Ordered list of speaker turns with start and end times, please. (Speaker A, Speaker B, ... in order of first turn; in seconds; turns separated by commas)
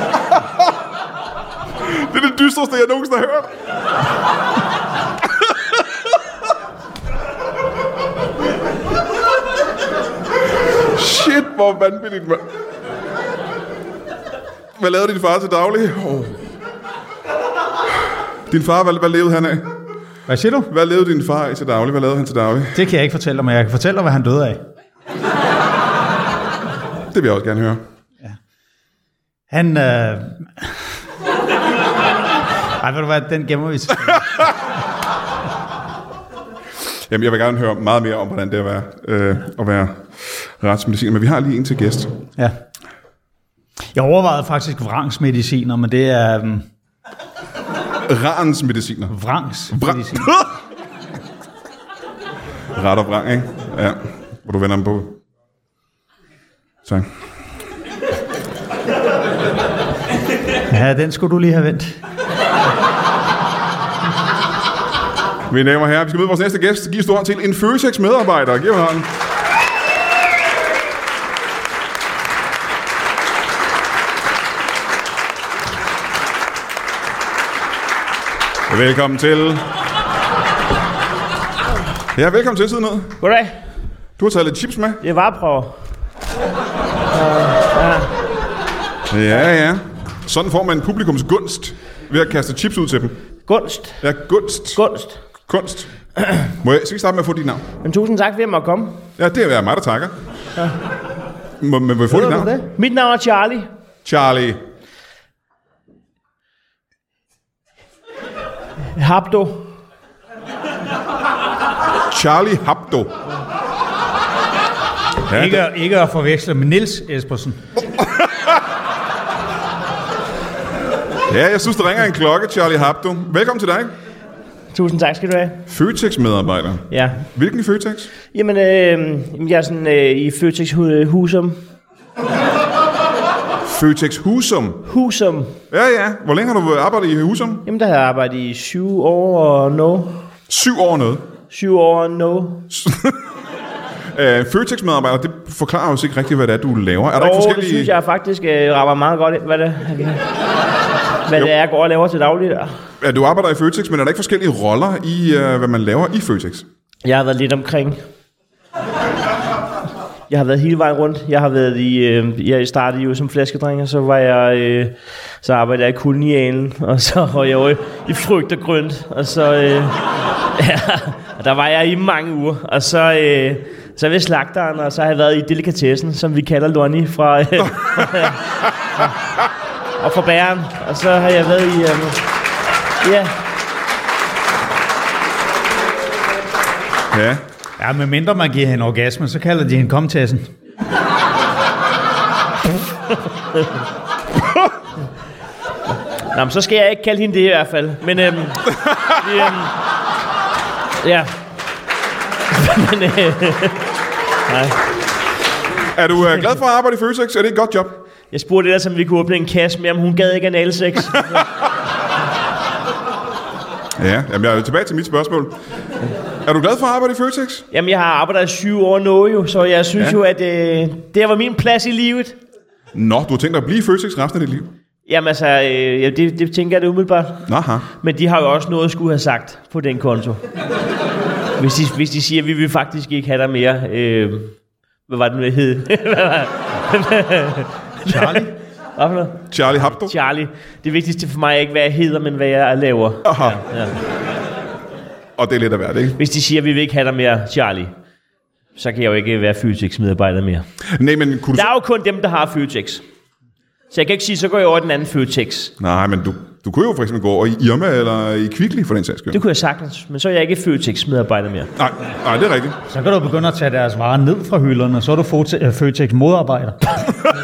Speaker A: 1.8-3.5, Speaker A: 10.9-12.4, Speaker A: 14.8-16.4, Speaker A: 18.5-19.7, Speaker B: 20.3-20.7, Speaker A: 20.7-22.8, Speaker B: 22.7-24.6, Speaker A: 27.1-27.8, Speaker B: 29.5-30.7, Speaker B: 32.8-34.4, Speaker A: 37.1-42.1, Speaker B: 43.9-46.6, Speaker A: 48.0-49.1, Speaker B: 49.1-50.3, Speaker A: 49.7-50.5, Speaker A: 52.7-55.2, Speaker A: 56.8-57.1, Speaker B: 60.7-62.0, Speaker A: 65.5-69.1, Speaker A: 78.7-79.7, Speaker A: 82.1-83.2, Speaker C: 83.2-83.5, Speaker A: 84.2-85.0, Speaker C: 85.0-85.7, Speaker C: 87.1-88.1, Speaker A: 89.1-93.2, Speaker C: 93.5-94.0, Speaker A: 94.0-94.8, Speaker C: 94.7-95.2, Speaker A: 95.5-95.9, Speaker A: 96.6-97.7, Speaker C: 97.8-99.0, Speaker A: 99.2-100.1, Speaker A: 101.6-102.6, Speaker C: 102.6-103.7, Speaker A: 104.0-104.6, Speaker C: 109.0-109.7, Speaker A: 112.1-113.1, Speaker A: 115.3-115.7, Speaker B: 115.3-117.6, Speaker A: 121.3-123.9, Speaker C: 124.7-125.6, Speaker A: 125.7-128.1, Speaker C: 126.9-127.2, Speaker C: 128.3-131.6, Speaker A: 133.6-134.8, Speaker C: 134.9-135.5, Speaker A: 135.7-137.6, Speaker C: 137.7-140.2, Speaker A: 140.5-141.2, Speaker C: 141.5-142.7, Speaker A: 142.7-143.2, Speaker A: 144.1-147.9, Speaker C: 147.2-150.2, Speaker C: 151.3-152.7, Speaker A: 153.0-156.6, Speaker C: 157.0-158.0, Speaker C: 160.3-170.0, Speaker C: 170.6-178.4, Speaker C: 180.0-182.2, Speaker C: 183.0-183.3, Speaker A: 187.1-187.4, Speaker B: 187.8-190.5, Speaker C: 196.3-199.7, Speaker C: 201.0-201.3, Speaker C: 202.5-203.9, Speaker C: 204.5-204.8, Speaker A: 205.9-208.0, Speaker C: 208.3-211.4, Speaker A: 214.0-215.6, Speaker A: 216.4-217.7, Speaker C: 217.7-222.4, Speaker A: 222.9-224.7, Speaker C: 225.1-227.4, Speaker A: 227.5-227.9, Speaker C: 228.0-230.4, Speaker C: 231.6-234.5, Speaker C: 235.1-239.4, Speaker B: 238.1-238.5, Speaker A: 239.5-240.1, Speaker C: 240.0-243.9, Speaker A: 243.2-243.6, Speaker A: 245.4-246.2, Speaker C: 246.2-247.9, Speaker C: 248.8-250.6, Speaker A: 250.9-251.7, Speaker C: 251.5-253.0, Speaker C: 253.9-255.7, Speaker A: 255.8-259.4, Speaker C: 259.3-261.7, Speaker A: 261.8-262.8, Speaker B: 262.9-266.8